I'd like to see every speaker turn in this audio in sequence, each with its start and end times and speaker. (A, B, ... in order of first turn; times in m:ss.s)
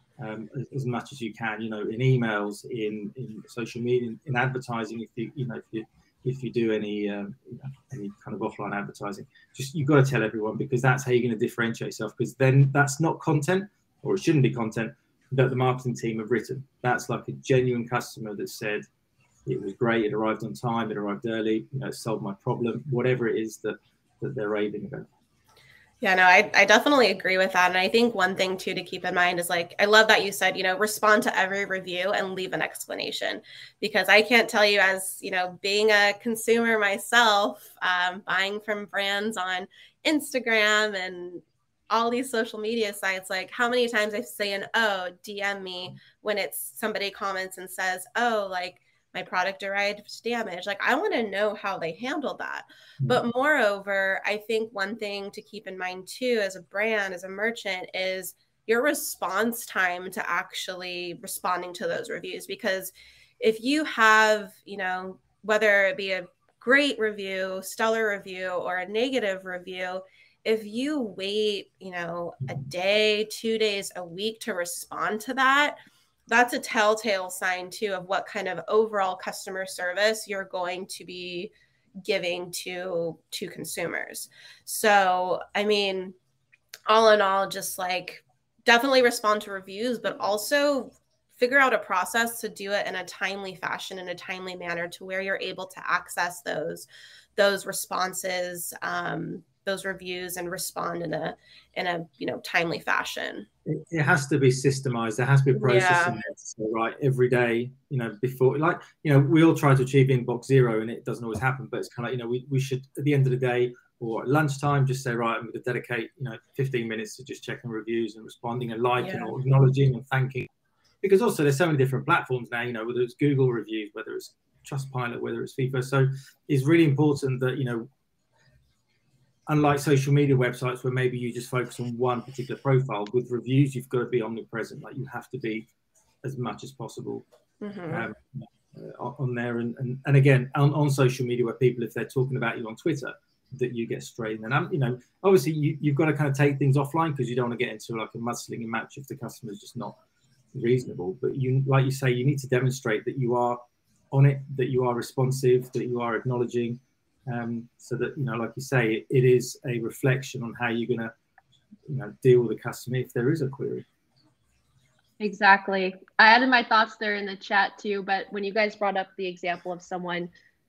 0:00.2-0:18.8 A
0:19.4-0:25.1 A
0:26.0-1:15.8 B
1:16.3-1:26.2 B
1:26.9-1:43.4 B
1:43.6-2:00.5 A
1:45.5-1:46.2 B
1:59.0-1:59.3 B
2:01.0-2:07.9 A
2:09.5-2:15.7 A
2:16.2-2:17.2 A
2:17.6-2:18.1 B
2:17.9-2:30.0 A
2:30.5-2:33.6 A
2:34.1-2:41.1 A
2:41.9-2:43.8 A
2:45.2-2:50.3 C